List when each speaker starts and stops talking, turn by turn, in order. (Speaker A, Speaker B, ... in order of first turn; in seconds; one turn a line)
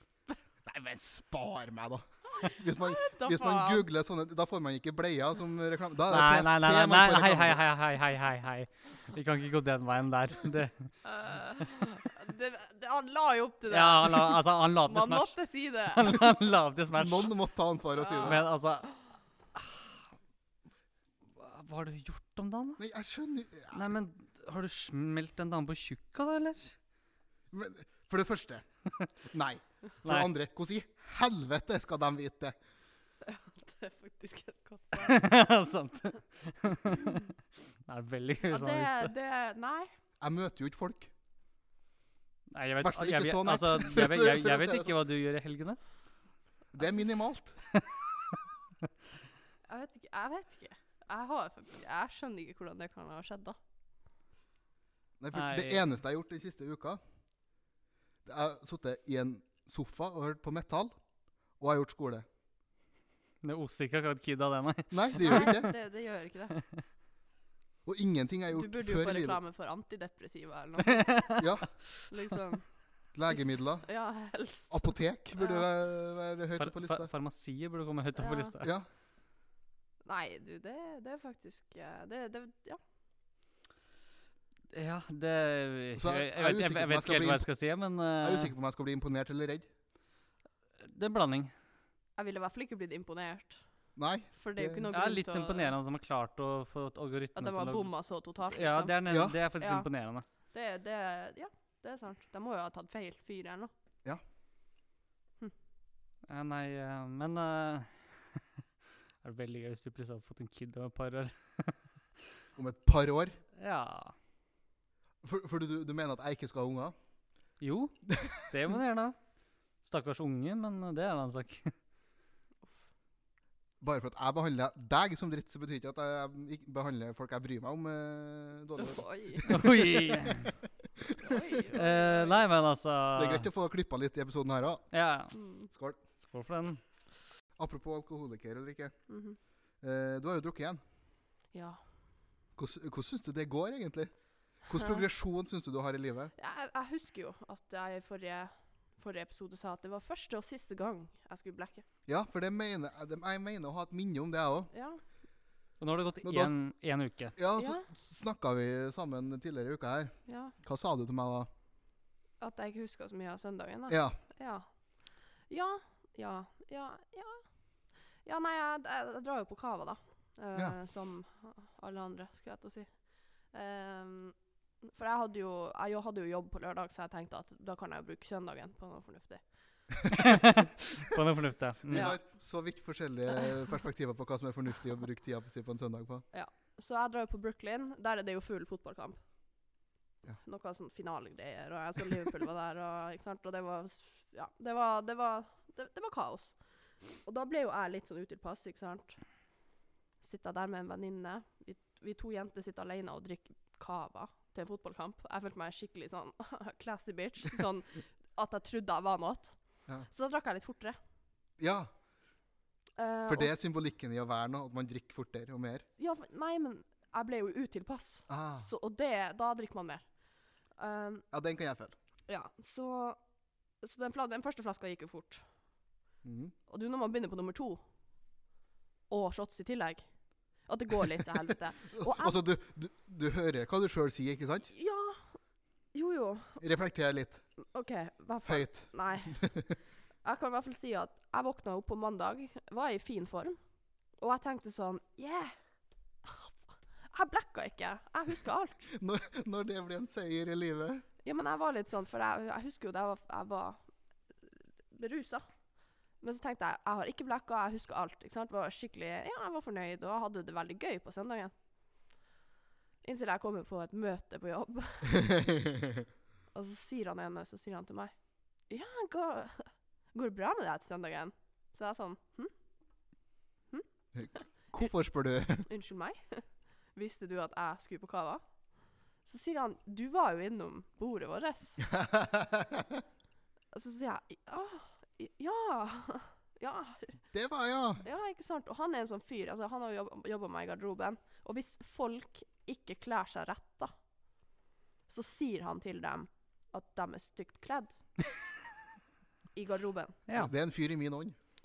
Speaker A: 0.7-7.6
Speaker B: 2.3-3.9
Speaker C: 6.1-11.1
Speaker B: 11.1-16.2
Speaker C: 13.7-17.3
Speaker A: 16.9-18.5
Speaker B: 18.0-18.5
Speaker C: 18.2-19.0
Speaker C: 19.6-19.9
Speaker C: 21.4-22.8
Speaker A: 22.8-23.9
Speaker C: 23.7-26.8
Speaker A: 27.5-28.6
Speaker A: 29.2-32.6
Speaker C: 30.1-30.3
Speaker B: 33.2-35.2
Speaker C: 35.0-37.3
Speaker C: 37.9-39.1
Speaker B: 38.5-39.9
Speaker A: 40.2-41.1
Speaker C: 42.5-45.8
Speaker A: 42.8-45.0
Speaker A: 46.7-47.6
Speaker C: 47.7-48.0
Speaker B: 49.7-53.6
Speaker A: 55.2-57.0
Speaker C: 55.3-55.8
Speaker A: 58.2-61.0
Speaker A: 61.6-62.2
Speaker C: 63.4-65.7
Speaker A: 64.9-65.7
Speaker B: 65.2-66.6
Speaker C: 66.5-66.8
Speaker A: 67.8-69.4
Speaker B: 68.5-72.8
Speaker C: 71.0-71.5
Speaker A: 71.4-71.7
Speaker A: 73.1-73.9
Speaker B: 73.3-75.7
Speaker A: 74.7-77.1
Speaker C: 76.6-78.7
Speaker B: 78.2-78.5
Speaker A: 78.6-78.9
Speaker B: 80.0-82.8
Speaker C: 84.7-88.5
Speaker A: 86.0-87.5
Speaker A: 88.2-89.7
Speaker C: 90.8-91.5
Speaker B: 92.2-93.6
Speaker A: 94.0-94.9
Speaker B: 94.3-95.7
Speaker C: 94.9-100.2
Speaker B: 97.3-99.0
Speaker A: 99.1-99.4
Speaker B: 99.6-99.9
Speaker B: 100.4-103.7
Speaker C: 106.2-108.4
Speaker C: 109.2-111.9
Speaker A: 112.6-113.4
Speaker C: 113.6-114.2
Speaker A: 115.2-117.0
Speaker C: 117.6-119.2
Speaker C: 119.8-121.8
Speaker A: 123.8-130.5
Speaker B: 128.8-129.6
Speaker C: 129.5-130.5
Speaker A: 131.0-131.4
Speaker B: 131.2-132.4
Speaker C: 131.7-133.5
Speaker A: 133.2-134.9
Speaker C: 134.9-135.4
Speaker B: 135.3-135.7
Speaker A: 135.7-136.0
Speaker C: 136.2-136.8
Speaker A: 137.6-139.0
Speaker B: 139.1-139.4
Speaker A: 139.8-140.8
Speaker B: 141.5-141.8
Speaker A: 142.6-144.1
Speaker A: 144.6-146.3
Speaker B: 146.4-151.8
Speaker A: 152.1-154.7
Speaker B: 154.7-155.0
Speaker C: 155.8-157.4
Speaker A: 156.2-156.5
Speaker A: 157.4-161.5
Speaker B: 157.6-157.9
Speaker B: 160.3-160.6
Speaker B: 162.4-167.4
Speaker A: 163.9-164.2
Speaker B: 168.2-179.4
Speaker C: 180.1-182.1
Speaker A: 181.9-186.2
Speaker B: 181.9-182.2
Speaker B: 186.3-189.2
Speaker B: 190.4-199.2
Speaker B: 200.2-211.0
Speaker A: 211.6-211.9
Speaker B: 213.0-213.5
Speaker A: 213.3-215.8
Speaker B: 216.0-220.1
Speaker A: 218.3-218.7
Speaker B: 220.8-221.3
Speaker A: 221.3-222.0
Speaker B: 222.3-223.2
Speaker B: 223.8-225.4
Speaker A: 226.2-226.5
Speaker B: 226.7-227.8
Speaker B: 229.1-232.4
Speaker A: 231.9-234.7
Speaker B: 234.7-235.4
Speaker B: 235.9-236.6
Speaker A: 236.6-237.5
Speaker B: 237.7-239.6
Speaker A: 238.4-239.7
Speaker B: 240.2-245.5
Speaker B: 246.2-246.6
Speaker B: 247.1-248.9
Speaker A: 248.9-251.1
Speaker B: 251.2-253.8
Speaker B: 254.9-255.5
Speaker B: 256.2-261.5
Speaker B: 263.0-265.4
Speaker B: 266.5-272.5
Speaker B: 273.7-274.4
Speaker A: 274.1-275.7
Speaker B: 275.7-278.4
Speaker B: 279.2-281.9
Speaker A: 281.9-283.0
Speaker B: 283.7-287.2
Speaker A: 287.3-288.0
Speaker B: 288.0-293.9
Speaker B: 295.1-298.1
Speaker B: 299.5-300.2
Speaker C: 300.3-300.5
Speaker A: 300.4-301.4